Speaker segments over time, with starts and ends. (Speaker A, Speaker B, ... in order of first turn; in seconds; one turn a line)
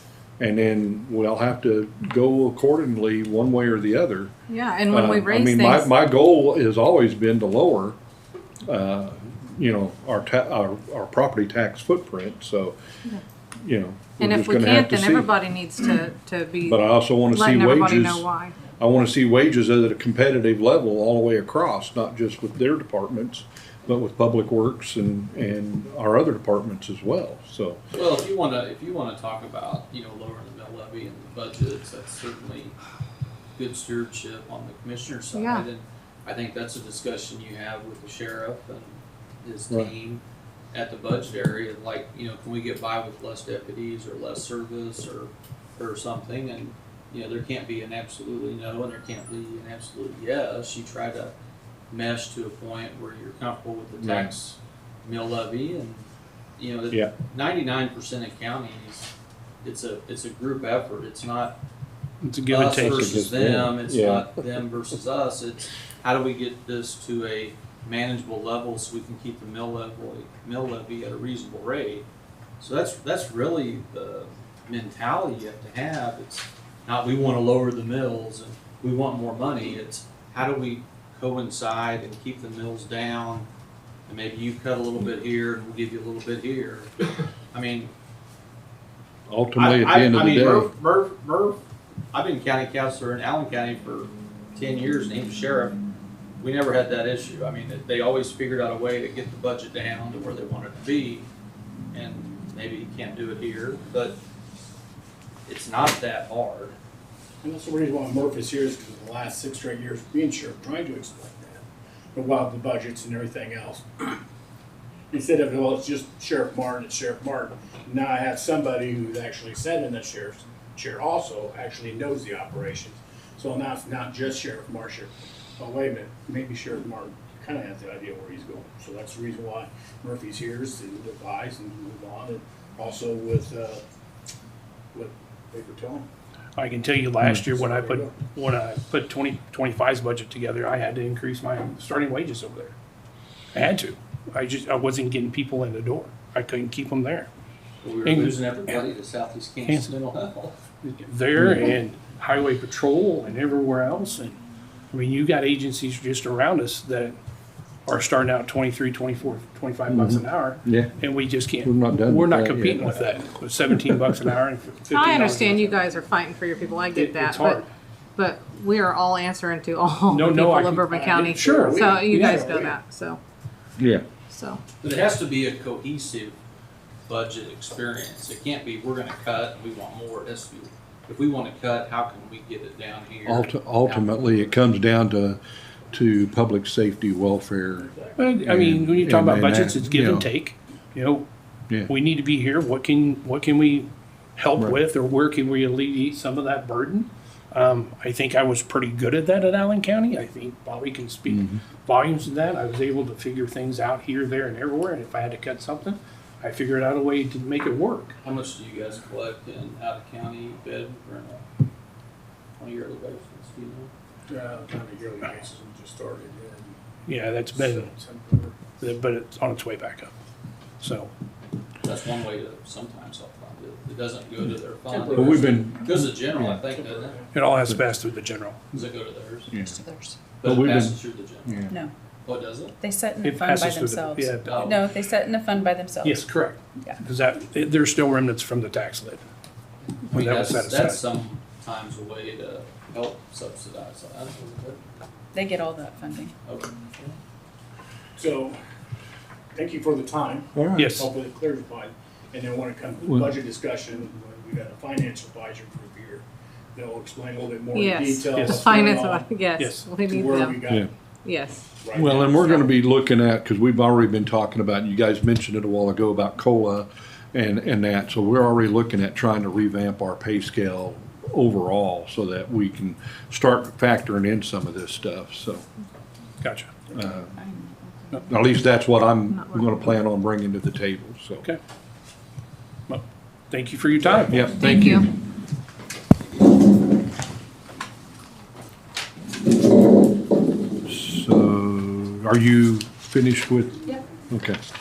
Speaker A: 0.4-4.3
Speaker B: 4.5-5.9
Speaker A: 4.9-8.0
Speaker A: 8.7-12.8
Speaker A: 13.6-15.3
Speaker B: 14.2-18.6
Speaker A: 16.6-27.8
Speaker C: 27.9-32.8
Speaker C: 33.5-51.3
Speaker B: 35.3-35.6
Speaker C: 51.9-56.0
Speaker A: 54.0-54.3
Speaker C: 56.6-59.1
Speaker C: 59.6-61.6
Speaker D: 62.2-63.1
Speaker C: 62.5-72.0
Speaker A: 62.8-64.4
Speaker C: 72.6-83.5
Speaker C: 84.1-87.9
Speaker A: 89.3-90.7
Speaker C: 89.6-91.6
Speaker C: 92.1-95.8
Speaker C: 96.4-101.3
Speaker C: 101.9-104.2
Speaker C: 105.5-106.8
Speaker E: 107.4-114.2
Speaker E: 115.1-133.8
Speaker E: 134.9-136.1
Speaker D: 136.6-142.7
Speaker E: 137.5-138.1
Speaker D: 143.5-147.3
Speaker C: 147.8-150.6
Speaker D: 148.0-148.8
Speaker D: 149.6-149.9
Speaker D: 150.8-157.2
Speaker A: 151.3-151.7
Speaker D: 157.8-165.9
Speaker A: 159.9-160.9
Speaker A: 161.6-163.0
Speaker B: 164.9-167.6
Speaker D: 166.9-167.7
Speaker B: 168.2-173.2
Speaker D: 170.1-172.6
Speaker E: 170.9-172.8
Speaker A: 173.8-174.0
Speaker B: 174.3-174.6
Speaker C: 174.8-176.3
Speaker C: 177.1-184.6
Speaker A: 183.2-185.4
Speaker A: 185.9-187.9
Speaker E: 187.8-188.3
Speaker D: 188.2-191.3
Speaker A: 188.4-190.3
Speaker D: 191.9-208.2
Speaker A: 201.3-201.6
Speaker C: 208.2-211.4
Speaker C: 212.6-213.9
Speaker E: 214.3-216.8
Speaker D: 217.1-217.9
Speaker E: 217.5-218.6
Speaker D: 218.8-220.1
Speaker D: 220.8-221.1
Speaker C: 221.8-227.2
Speaker E: 224.9-225.6
Speaker A: 225.1-226.6
Speaker E: 226.6-227.3
Speaker D: 227.3-228.8
Speaker C: 228.7-229.5
Speaker A: 229.5-229.8
Speaker F: 229.6-230.2
Speaker C: 230.4-231.7
Speaker A: 230.4-231.8
Speaker C: 232.2-232.8
Speaker F: 232.8-236.3
Speaker D: 233.2-234.9
Speaker C: 234.4-234.9
Speaker D: 236.0-239.2
Speaker D: 240.1-241.0
Speaker C: 240.1-244.8
Speaker F: 245.3-246.3
Speaker C: 246.4-247.2
Speaker E: 248.1-248.6
Speaker E: 249.5-259.3
Speaker A: 250.5-250.9
Speaker D: 250.7-251.1
Speaker A: 253.0-253.3
Speaker B: 257.7-260.6
Speaker D: 258.3-258.6
Speaker D: 259.6-259.9
Speaker E: 260.0-260.9
Speaker B: 261.2-262.7
Speaker E: 261.8-262.3
Speaker A: 261.9-275.6
Speaker D: 276.4-276.8
Speaker A: 276.9-277.3
Speaker F: 277.2-278.3
Speaker A: 278.3-281.5
Speaker D: 282.9-284.5
Speaker A: 284.3-285.1
Speaker B: 284.6-285.1
Speaker A: 290.9-294.6